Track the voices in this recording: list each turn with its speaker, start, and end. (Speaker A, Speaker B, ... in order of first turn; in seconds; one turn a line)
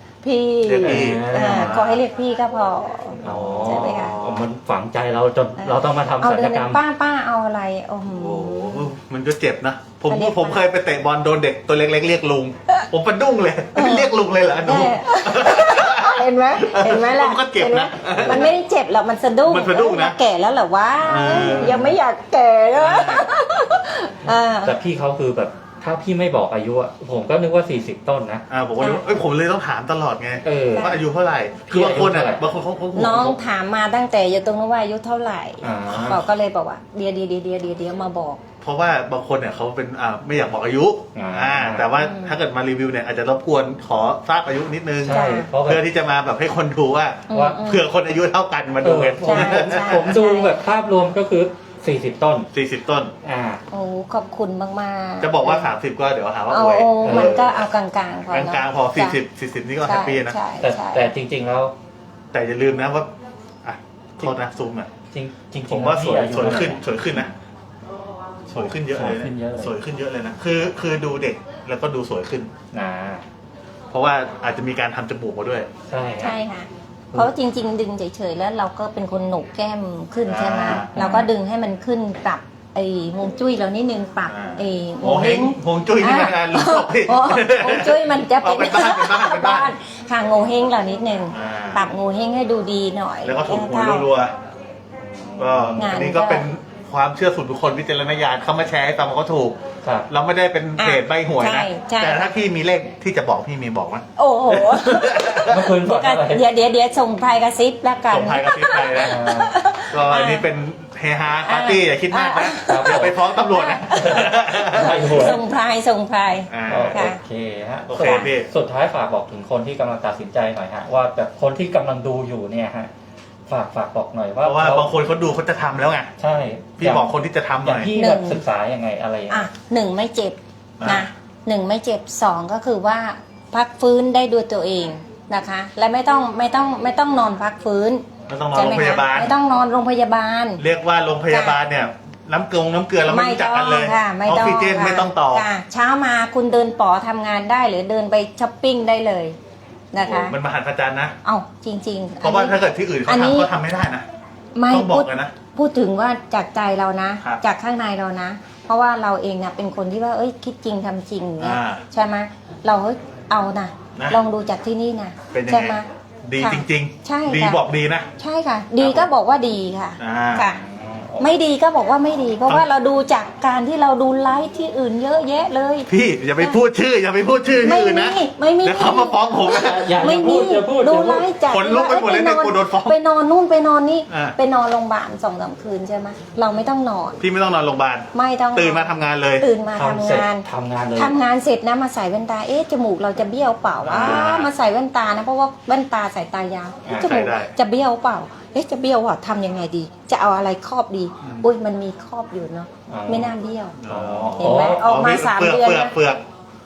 Speaker A: 0.2-4.2
Speaker B: 0.6-1.9
Speaker C: 0.8-2.0
Speaker B: 3.2-4.5
Speaker C: 3.2-6.8
Speaker A: 5.6-8.9
Speaker B: 8.2-18.6
Speaker A: 10.1-10.6
Speaker A: 13.8-24.8
Speaker C: 18.1-18.5
Speaker B: 19.5-20.2
Speaker B: 21.0-22.0
Speaker C: 21.3-21.9
Speaker B: 22.7-23.3
Speaker C: 24.6-28.4
Speaker B: 28.5-33.4
Speaker C: 30.4-30.9
Speaker A: 30.7-31.0
Speaker C: 31.7-32.6
Speaker A: 33.0-38.4
Speaker C: 35.6-36.2
Speaker B: 38.6-50.1
Speaker C: 41.1-41.9
Speaker A: 42.0-42.4
Speaker C: 45.0-45.8
Speaker A: 45.0-45.5
Speaker A: 47.3-47.9
Speaker C: 47.3-47.6
Speaker C: 48.8-52.5
Speaker A: 49.2-50.6
Speaker B: 52.5-53.1
Speaker C: 53.2-53.6
Speaker A: 53.7-55.7
Speaker B: 55.2-57.7
Speaker A: 56.5-59.2
Speaker C: 57.0-57.4
Speaker B: 58.3-60.4
Speaker A: 59.9-61.1
Speaker C: 60.6-61.7
Speaker B: 62.3-63.1
Speaker B: 63.6-64.9
Speaker C: 65.1-67.2
Speaker B: 65.7-67.3
Speaker B: 68.5-72.5
Speaker C: 68.7-69.8
Speaker C: 72.7-73.2
Speaker B: 73.9-75.7
Speaker C: 75.9-76.4
Speaker A: 76.2-94.1
Speaker B: 80.3-80.9
Speaker C: 80.7-81.3
Speaker B: 84.3-89.7
Speaker B: 91.3-91.9
Speaker B: 93.2-94.3
Speaker C: 95.0-95.9
Speaker B: 95.4-105.7
Speaker A: 95.8-96.5
Speaker A: 100.8-102.3
Speaker A: 104.2-110.5
Speaker C: 105.4-106.4
Speaker B: 108.1-109.2
Speaker C: 109.0-109.6
Speaker B: 109.9-115.2
Speaker A: 111.4-117.2
Speaker C: 112.7-113.2
Speaker C: 113.9-115.4
Speaker B: 116.5-117.0
Speaker C: 116.7-122.9
Speaker B: 117.9-118.5
Speaker A: 118.0-118.3
Speaker C: 123.5-124.9
Speaker B: 124.4-126.1
Speaker C: 126.2-127.1
Speaker B: 126.8-127.9
Speaker C: 127.6-129.5
Speaker A: 128.0-128.4
Speaker A: 129.3-140.6
Speaker B: 130.8-131.1
Speaker B: 138.3-139.3
Speaker B: 140.6-145.5
Speaker A: 141.3-141.6
Speaker A: 143.1-149.4
Speaker A: 149.9-150.4
Speaker B: 150.0-151.2
Speaker A: 151.2-153.5
Speaker B: 152.2-154.1
Speaker A: 154.6-165.9
Speaker B: 154.7-155.3
Speaker B: 161.4-161.8
Speaker B: 164.0-164.2
Speaker B: 165.3-168.1
Speaker A: 166.4-167.6
Speaker A: 168.2-170.6
Speaker B: 168.8-169.1
Speaker B: 170.0-170.5
Speaker C: 170.4-171.3
Speaker A: 171.2-176.6
Speaker B: 175.9-180.0
Speaker A: 177.6-187.2
Speaker C: 179.5-181.3
Speaker B: 181.5-183.0
Speaker B: 184.1-184.4
Speaker B: 187.2-189.5
Speaker A: 188.1-203.8
Speaker C: 189.7-191.2
Speaker C: 193.8-194.5
Speaker B: 193.8-194.5
Speaker C: 196.8-197.1
Speaker B: 196.9-197.5
Speaker B: 201.2-201.5
Speaker C: 202.9-203.3
Speaker B: 203.8-206.2
Speaker C: 203.9-204.8
Speaker A: 204.4-205.9